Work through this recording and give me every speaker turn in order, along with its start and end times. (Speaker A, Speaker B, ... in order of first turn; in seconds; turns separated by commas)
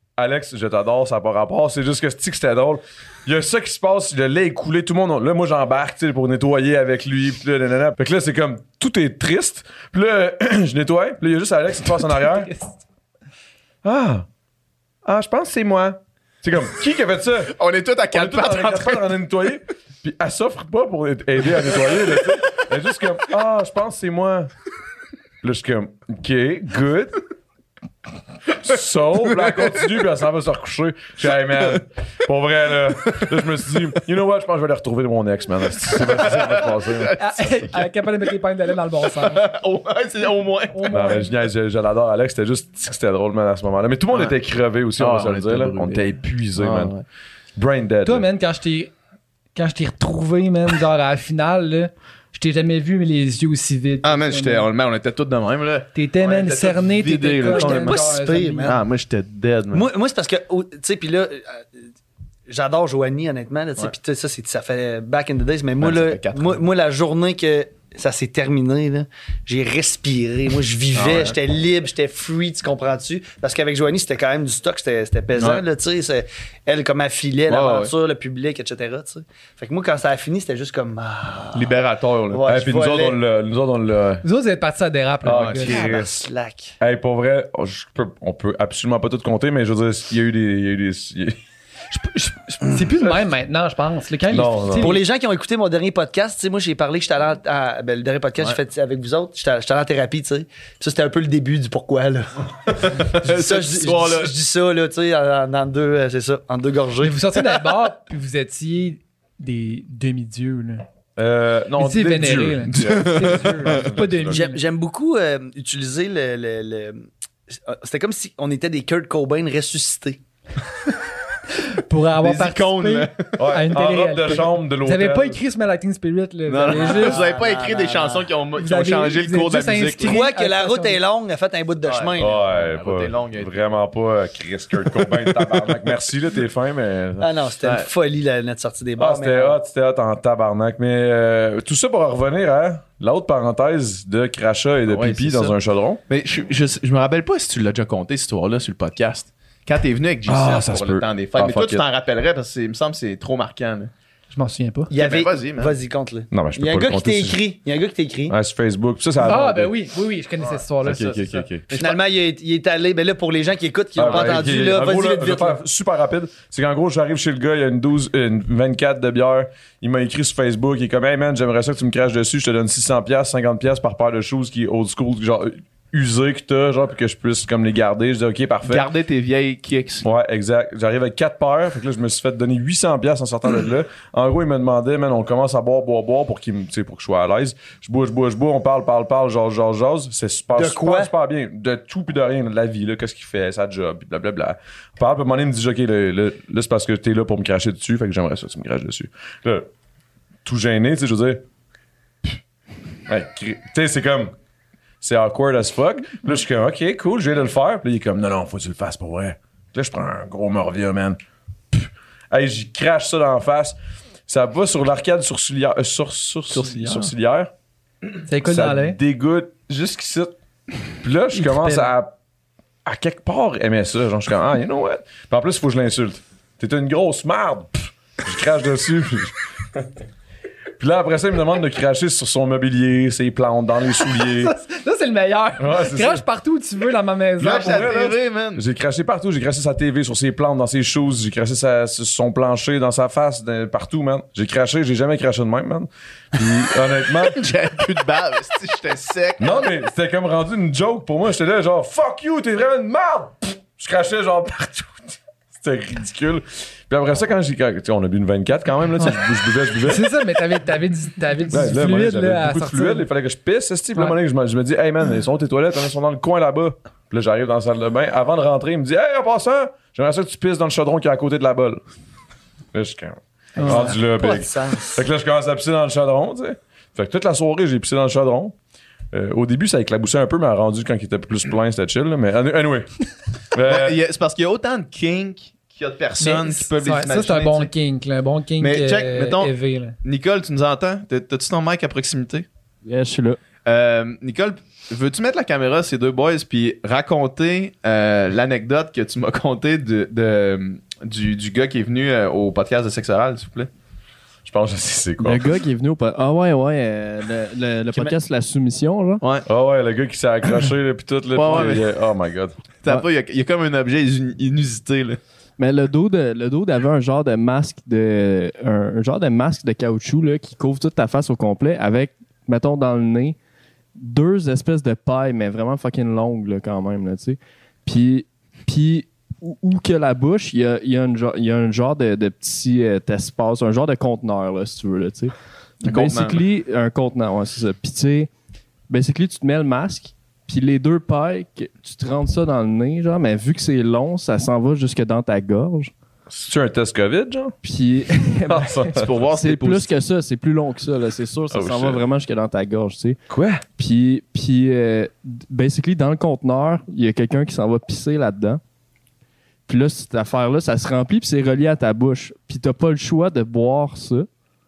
Speaker A: 0.2-12.5, Speaker B: 12.1-12.8, Speaker A: 13.8-14.3, Speaker A: 15.1-17.6, Speaker C: 17.6-19.2, Speaker A: 18.1-24.5, Speaker A: 25.4-27.2, Speaker A: 28.5-37.4, Speaker C: 29.4-29.8, Speaker C: 35.9-37.1, Speaker B: 37.2-39.5, Speaker C: 39.1-41.3, Speaker B: 40.7-41.3, Speaker A: 40.9-46.9, Speaker C: 44.1-44.4, Speaker C: 45.0-47.0, Speaker A: 47.6-48.3, Speaker B: 48.0-48.9, Speaker B: 49.5-54.7, Speaker C: 54.0-58.0, Speaker B: 56.0-58.8, Speaker D: 57.5-58.8, Speaker C: 58.6-59.9, Speaker D: 59.7-61.7, Speaker D: 62.5-81.7, Speaker C: 65.8-66.6, Speaker C: 71.0-71.4, Speaker C: 75.4-75.6, Speaker C: 77.5-77.9, Speaker C: 81.5-82.5, Speaker D: 82.3-83.2, Speaker A: 82.5-84.2, Speaker B: 84.2-85.8, Speaker A: 85.2-86.2, Speaker C: 85.3-85.7, Speaker D: 85.5-86.8, Speaker A: 86.8-91.4, Speaker B: 91.9-95.0, Speaker A: 94.3-95.0, Speaker D: 94.8-107.6, Speaker C: 102.7-104.3, Speaker B: 107.0-110.8, Speaker A: 111.2-114.5, Speaker B: 111.8-114.6, Speaker C: 112.7-113.9, Speaker D: 114.3-120.2, Speaker B: 121.6-127.2, Speaker C: 122.2-123.4, Speaker A: 123.4-125.4, Speaker C: 126.5-130.2, Speaker D: 126.7-128.3, Speaker B: 128.6-131.0, Speaker D: 130.0-132.5, Speaker C: 131.8-133.6, Speaker A: 132.2-137.3, Speaker C: 135.3-135.8, Speaker D: 137.2-139.6, Speaker C: 137.6-137.9, Speaker A: 139.0-146.0, Speaker C: 144.9-145.6, Speaker C: 146.1-153.9, Speaker A: 150.3-151.8, Speaker B: 154.3-154.9, Speaker D: 154.9-158.4, Speaker C: 154.9-155.8, Speaker A: 156.3-157.4, Speaker A: 158.3-159.7, Speaker B: 159.2-161.4, Speaker A: 160.8-161.7, Speaker C: 161.7-162.0, Speaker D: 161.7-165.6, Speaker A: 164.0-178.9, Speaker C: 178.7-180.1, Speaker A: 180.0-199.7, Speaker D: 190.6-191.1, Speaker A: 200.4-201.4, Speaker A: 203.1-204.3, Speaker A: 205.0-211.2, Speaker A: 211.7-213.8, Speaker A: 214.3-217.5, Speaker C: 216.5-217.1, Speaker B: 218.3-219.0, Speaker A: 218.4-220.3, Speaker A: 221.0-222.1, Speaker B: 221.3-221.9, Speaker A: 222.8-229.9, Speaker A: 230.8-234.5, Speaker B: 234.0-237.9, Speaker A: 235.6-236.2, Speaker C: 237.4-238.6, Speaker A: 237.4-247.5, Speaker C: 247.2-249.7, Speaker A: 249.4-260.1, Speaker B: 259.0-259.2, Speaker B: 259.8-263.1, Speaker A: 261.5-271.8, Speaker A: 272.7-278.6, Speaker B: 273.6-274.0, Speaker D: 273.6-275.1, Speaker A: 279.1-284.0, Speaker C: 283.7-287.7, Speaker B: 286.2-290.0, Speaker C: 288.6-292.5, Speaker E: 292.9-293.4, Speaker C: 293.6-303.7, Speaker A: 304.4-305.5, Speaker E: 305.2-309.2, Speaker A: 309.5-312.6, Speaker C: 311.3-312.0, Speaker C: 312.8-315.2, Speaker E: 315.6-323.4, Speaker E: 324.0-338.3, Speaker C: 335.8-336.4, Speaker E: 338.9-345.9, Speaker A: 346.3-347.6, Speaker E: 347.6-353.2, Speaker A: 348.4-349.1, Speaker C: 348.9-349.9, Speaker A: 351.5-352.0, Speaker A: 353.3-353.6, Speaker E: 353.8-358.6, Speaker E: 359.7-364.3